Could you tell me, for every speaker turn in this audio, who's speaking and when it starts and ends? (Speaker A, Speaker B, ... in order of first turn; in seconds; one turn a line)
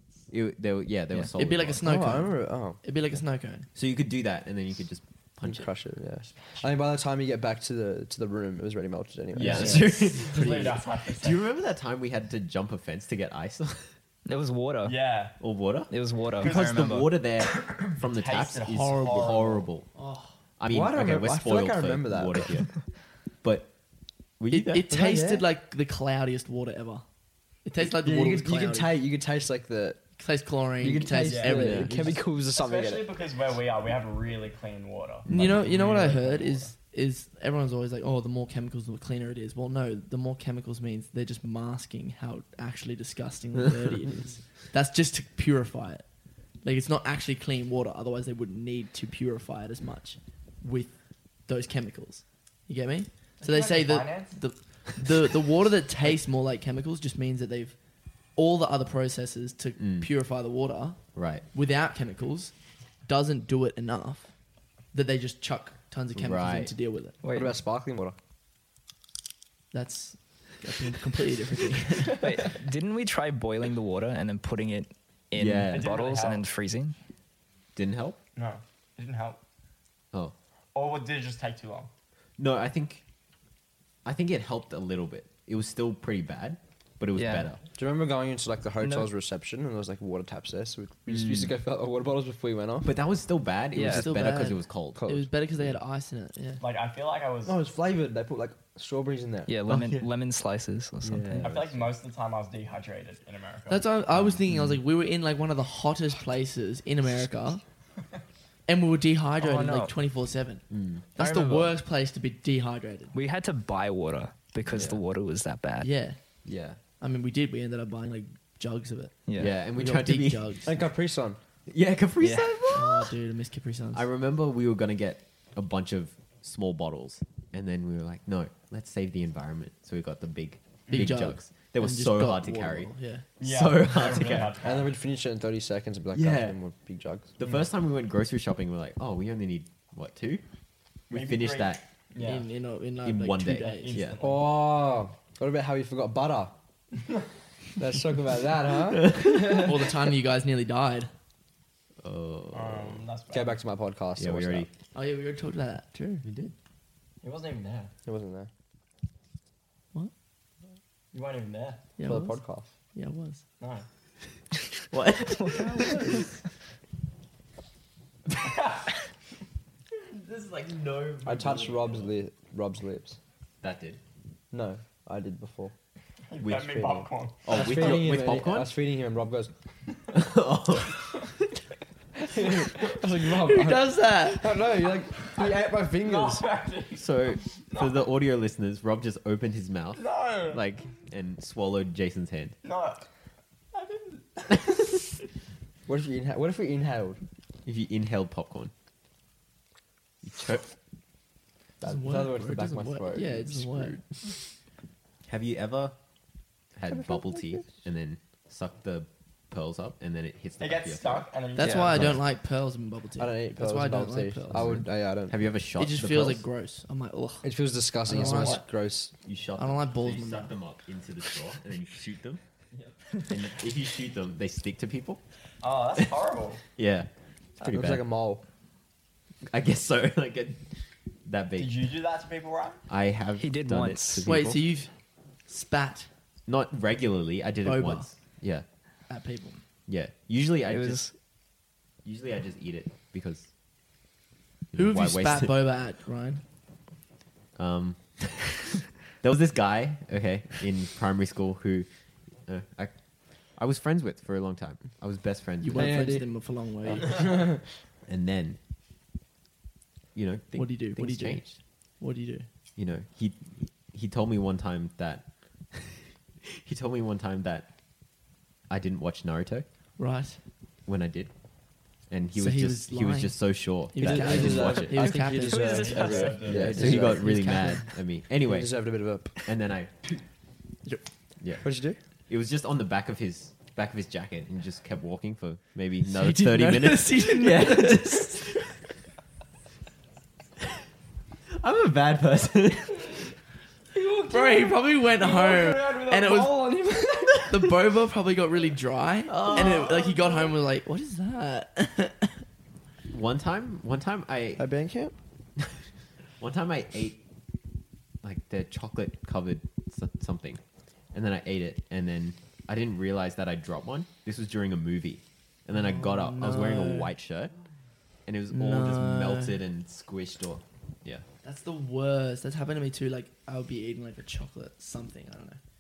Speaker A: 0.3-1.9
Speaker B: 1.4-3.7
Speaker C: 1.8-2.8
Speaker A: 3.8-5.7
Speaker C: 5.4-10.0
Speaker B: 9.4-10.8
Speaker A: 9.4-13.9
Speaker D: 9.4-9.9
Speaker E: 10.2-11.4
Speaker D: 14.3-15.0
Speaker E: 14.8-15.4
Speaker A: 15.4-19.9
Speaker D: 15.9-17.1
Speaker E: 16.4-16.7
Speaker E: 17.4-19.7
Speaker B: 18.7-19.4
Speaker B: 19.9-20.4
Speaker A: 20.6-22.8
Speaker C: 20.7-22.5
Speaker A: 23.4-23.7
Speaker A: 24.4-24.9
Speaker B: 24.5-27.1
Speaker C: 24.9-25.5
Speaker B: 27.6-29.0
Speaker C: 27.8-30.0
Speaker B: 30.2-32.2
Speaker C: 30.8-33.1
Speaker E: 31.2-36.7
Speaker B: 35.3-46.1
Speaker A: 35.3-35.7
Speaker B: 46.6-57.8
Speaker E: 53.4-54.4
Speaker B: 58.4-62.5
Speaker A: 59.8-60.1
Speaker A: 61.1-61.4
Speaker B: 63.0-64.3
Speaker B: 64.9-67.2
Speaker A: 66.2-66.7
Speaker D: 67.2-67.6
Speaker C: 67.3-68.2
Speaker B: 69.7-72.2
Speaker D: 72.2-77.0
Speaker A: 75.3-75.9
Speaker E: 75.7-76.4
Speaker A: 77.8-78.2
Speaker E: 78.4-79.4
Speaker E: 80.7-81.9
Speaker A: 82.4-83.0
Speaker A: 84.0-87.6
Speaker D: 87.2-87.5
Speaker C: 87.7-92.9
Speaker D: 88.8-89.1
Speaker A: 91.1-91.5
Speaker A: 92.8-95.1
Speaker D: 93.8-94.1
Speaker B: 93.8-96.6
Speaker C: 95.0-95.3
Speaker E: 96.6-97.6
Speaker C: 97.5-99.5
Speaker D: 99.5-101.5
Speaker A: 99.7-100.1
Speaker A: 101.0-101.8
Speaker E: 101.4-103.9
Speaker B: 103.7-107.6
Speaker A: 104.1-104.8
Speaker B: 108.7-110.6
Speaker D: 109.4-109.9
Speaker A: 110.7-111.0
Speaker B: 111.2-113.2
Speaker D: 111.2-111.7
Speaker D: 113.1-115.9
Speaker A: 114.7-115.0
Speaker B: 115.8-116.2
Speaker A: 116.5-116.8
Speaker B: 117.0-120.7
Speaker D: 119.3-119.5
Speaker A: 119.4-120.7
Speaker C: 120.7-121.4
Speaker A: 121.7-123.1
Speaker D: 122.2-122.6
Speaker B: 122.7-124.0
Speaker A: 123.9-134.6
Speaker B: 130.9-133.2
Speaker E: 133.4-134.9
Speaker C: 134.6-137.3
Speaker A: 136.1-136.6
Speaker A: 137.4-140.4
Speaker A: 141.1-141.8
Speaker E: 141.1-142.5
Speaker B: 142.2-144.1
Speaker A: 143.0-144.2
Speaker E: 143.6-144.5
Speaker C: 144.2-146.6
Speaker C: 147.8-149.8
Speaker A: 149.1-149.6
Speaker B: 149.4-151.1
Speaker A: 152.0-153.1
Speaker E: 152.5-153.6
Speaker C: 153.3-154.7
Speaker A: 154.2-154.7
Speaker B: 154.9-156.3
Speaker A: 156.2-156.5
Speaker E: 157.2-157.9
Speaker C: 158.1-158.5
Speaker E: 161.1-161.9
Speaker B: 162.0-162.4
Speaker C: 162.0-162.7
Speaker B: 162.9-163.4
Speaker E: 163.6-163.9
Speaker A: 164.9-166.2
Speaker B: 165.5-166.2
Speaker E: 168.4-168.8
Speaker A: 170.0-172.1
Speaker C: 171.2-173.2
Speaker A: 173.6-174.0
Speaker C: 174.5-175.7
Speaker E: 176.3-177.9
Speaker A: 176.4-178.7
Speaker C: 177.5-179.5
Speaker A: 180.1-181.5
Speaker C: 182.2-186.4
Speaker B: 183.4-184.6
Speaker E: 185.1-188.1
Speaker A: 187.0-192.6
Speaker E: 190.0-190.6
Speaker E: 192.6-193.0
Speaker E: 193.7-195.1
Speaker C: 195.9-197.2
Speaker A: 197.7-198.7
Speaker A: 200.2-200.7
Speaker C: 201.8-204.1
Speaker B: 201.8-204.0
Speaker A: 205.3-206.0
Speaker A: 206.8-211.3
Speaker C: 206.9-207.6
Speaker E: 210.6-212.1
Speaker B: 211.6-214.8
Speaker D: 211.6-212.1
Speaker A: 211.8-212.2
Speaker C: 213.2-215.5
Speaker A: 214.5-216.4
Speaker B: 215.8-218.7
Speaker C: 217.4-219.1
Speaker A: 219.2-222.4
Speaker B: 219.6-220.5
Speaker E: 222.7-223.1
Speaker A: 223.3-225.2
Speaker E: 225.6-226.6
Speaker A: 226.8-228.0
Speaker C: 227.6-228.4
Speaker A: 229.5-230.7
Speaker A: 231.2-231.8
Speaker E: 231.6-232.8
Speaker A: 232.9-234.6
Speaker D: 233.4-234.3
Speaker B: 234.2-234.9
Speaker B: 235.5-236.1
Speaker A: 236.5-238.7
Speaker B: 237.6-238.1
Speaker B: 239.1-239.6
Speaker A: 239.9-241.1
Speaker D: 240.7-241.1
Speaker A: 242.0-243.5
Speaker A: 244.7-245.5
Speaker B: 244.7-246.4
Speaker A: 247.6-248.7
Speaker A: 249.2-251.9
Speaker A: 252.5-252.9
Speaker A: 253.5-256.1
Speaker B: 255.6-257.3
Speaker C: 255.7-256.3
Speaker C: 256.9-257.6
Speaker A: 258.1-258.6
Speaker A: 260.1-261.6
Speaker B: 260.6-262.5
Speaker A: 262.8-267.7
Speaker A: 268.7-269.6
Speaker B: 270.0-270.4
Speaker A: 270.9-271.3
Speaker A: 272.0-275.2
Speaker B: 272.4-277.9
Speaker C: 274.0-277.2
Speaker D: 275.4-276.6
Speaker E: 275.7-276.9
Speaker A: 276.4-278.8
Speaker C: 278.4-279.5
Speaker A: 279.4-279.9
Speaker C: 281.6-282.0
Speaker A: 282.3-288.8
Speaker B: 286.0-288.4
Speaker A: 291.5-293.3
Speaker C: 293.9-297.5
Speaker B: 294.3-296.7
Speaker B: 297.4-302.4
Speaker A: 299.3-300.2
Speaker A: 303.1-304.7
Speaker C: 304.6-305.1
Speaker A: 306.4-307.2
Speaker A: 308.2-317.5
Speaker B: 315.7-317.1
Speaker A: 318.3-321.2
Speaker B: 318.5-319.6
Speaker B: 321.4-325.6